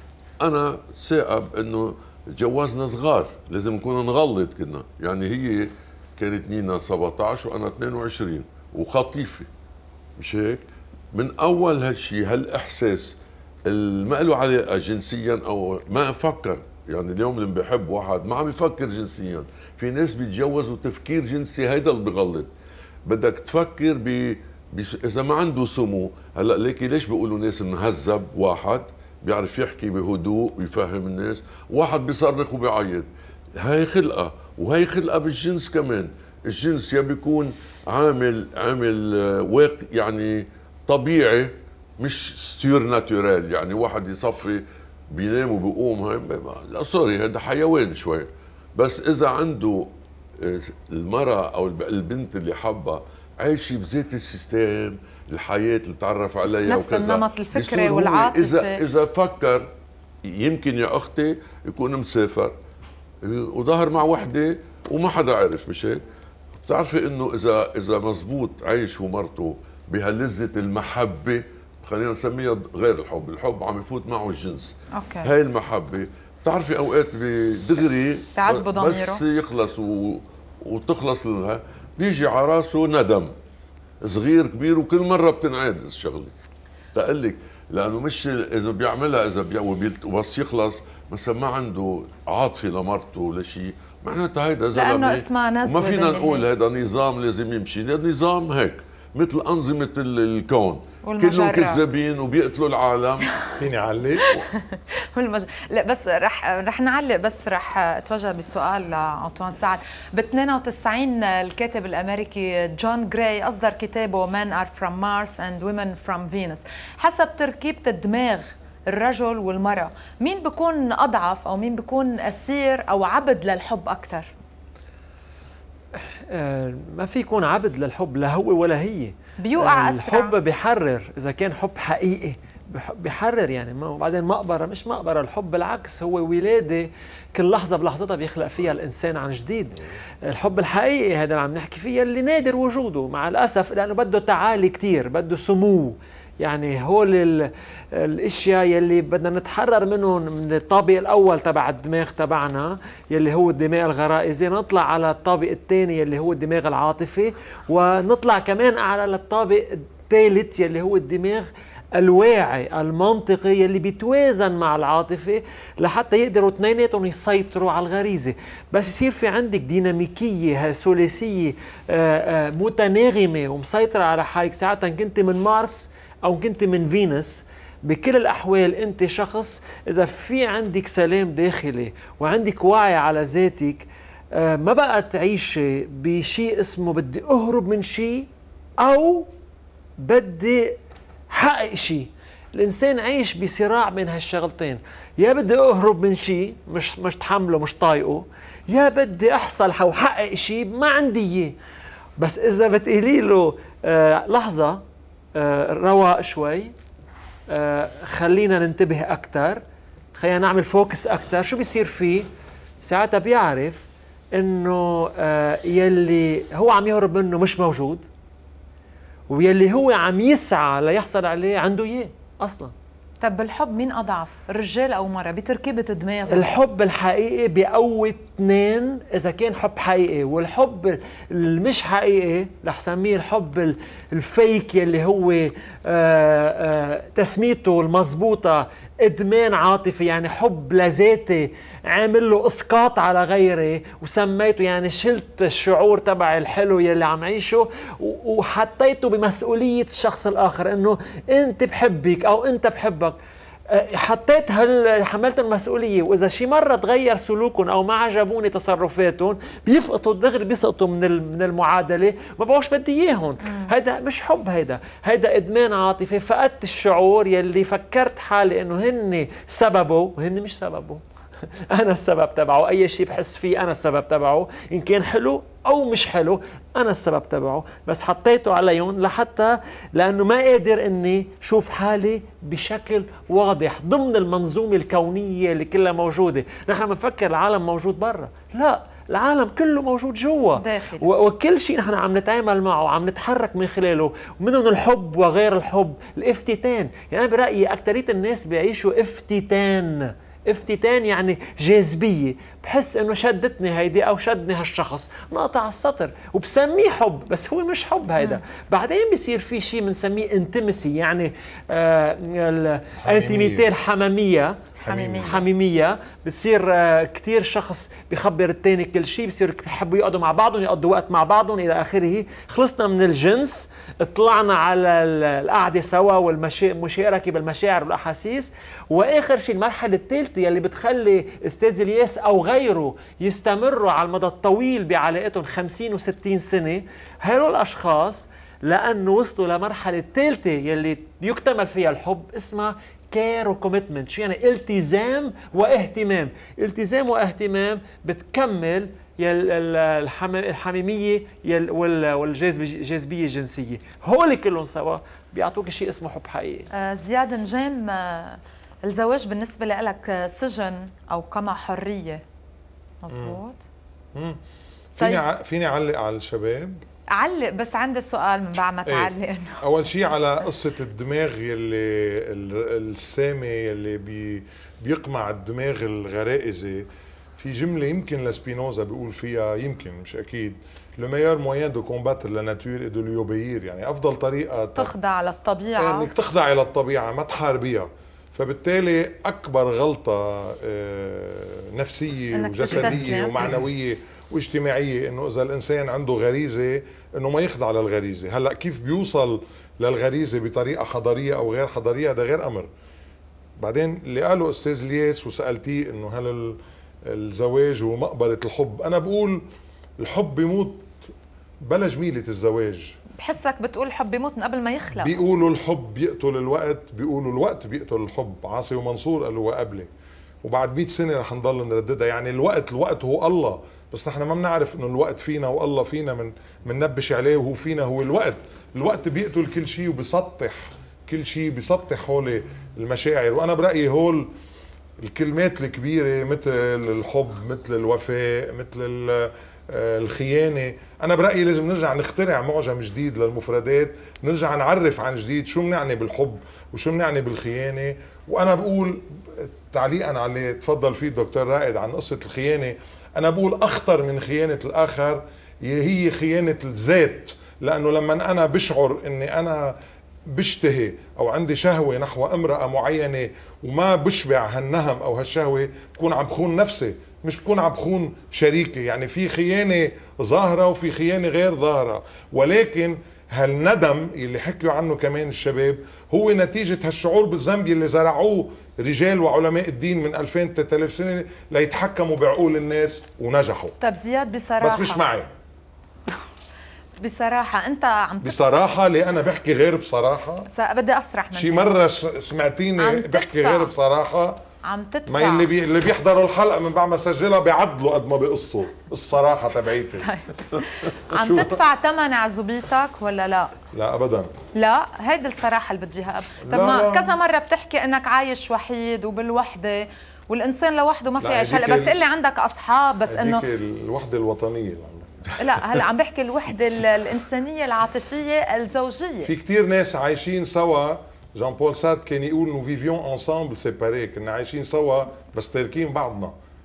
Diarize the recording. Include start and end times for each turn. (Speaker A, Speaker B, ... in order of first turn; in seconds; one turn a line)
Speaker A: 0.4-9.5
Speaker A: 10.2-10.6
Speaker A: 11.1-13.1
Speaker A: 13.7-22.5
Speaker A: 23.1-49.9
Speaker A: 50.4-59.7
Speaker B: 56.6-58.7
Speaker A: 60.3-62.5
Speaker A: 63.2-66.0
Speaker A: 66.7-74.7
Speaker B: 75.0-75.3
Speaker A: 75.2-83.3
Speaker B: 78.4-79.2
Speaker A: 84.0-86.3
Speaker A: 86.9-103.3
Speaker B: 94.7-96.5
Speaker B: 101.0-101.8
Speaker C: 103.6-104.2
Speaker B: 105.2-124.3
Speaker D: 126.3-147.3
Speaker B: 129.4-130.3
Speaker D: 148.0-161.5
Speaker D: 162.0-183.8
Speaker D: 184.4-188.3
Speaker D: 188.8-189.3
Speaker D: 190.0-190.7
Speaker D: 191.3-201.5
Speaker D: 202.2-204.8
Speaker D: 205.3-206.7
Speaker D: 207.5-209.6
Speaker D: 210.2-212.3
Speaker D: 212.8-218.1
Speaker D: 219.3-222.7
Speaker B: 223.2-226.5
Speaker D: 226.3-253.2
Speaker D: 253.7-271.0
Speaker D: 271.7-314.6
Speaker B: 290.6-291.1
Speaker C: 313.1-313.7
Speaker C: 314.8-315.4
Speaker B: 314.9-315.4
Speaker D: 315.2-356.7
Speaker B: 356.7-362.2
Speaker B: 363.0-363.6
Speaker C: 363.1-363.4
Speaker C: 365.0-366.8
Speaker B: 367.1-369.6
Speaker C: 368.9-369.1
Speaker C: 369.6-376.9
Speaker C: 377.4-384.9
Speaker B: 384.8-386.1
Speaker C: 385.8-402.7
Speaker B: 392.3-393.6
Speaker C: 403.6-406.6
Speaker C: 407.1-409.4
Speaker C: 410.0-411.1
Speaker C: 411.6-412.9
Speaker B: 413.2-415.2
Speaker C: 415.0-419.9
Speaker C: 420.4-434.3
Speaker C: 435.0-459.7
Speaker C: 460.3-483.7
Speaker B: 483.8-485.0
Speaker C: 484.6-485.3
Speaker B: 487.0-488.4
Speaker C: 488.2-490.4
Speaker B: 490.5-491.7
Speaker C: 491.3-494.4
Speaker B: 492.8-493.7
Speaker B: 494.6-495.5
Speaker C: 495.1-500.1
Speaker B: 500.0-503.5
Speaker C: 501.2-501.6
Speaker C: 503.7-504.3
Speaker B: 504.6-513.5
Speaker C: 506.5-507.1
Speaker C: 511.2-512.0
Speaker C: 513.1-515.8
Speaker B: 515.4-519.3
Speaker C: 519.2-526.4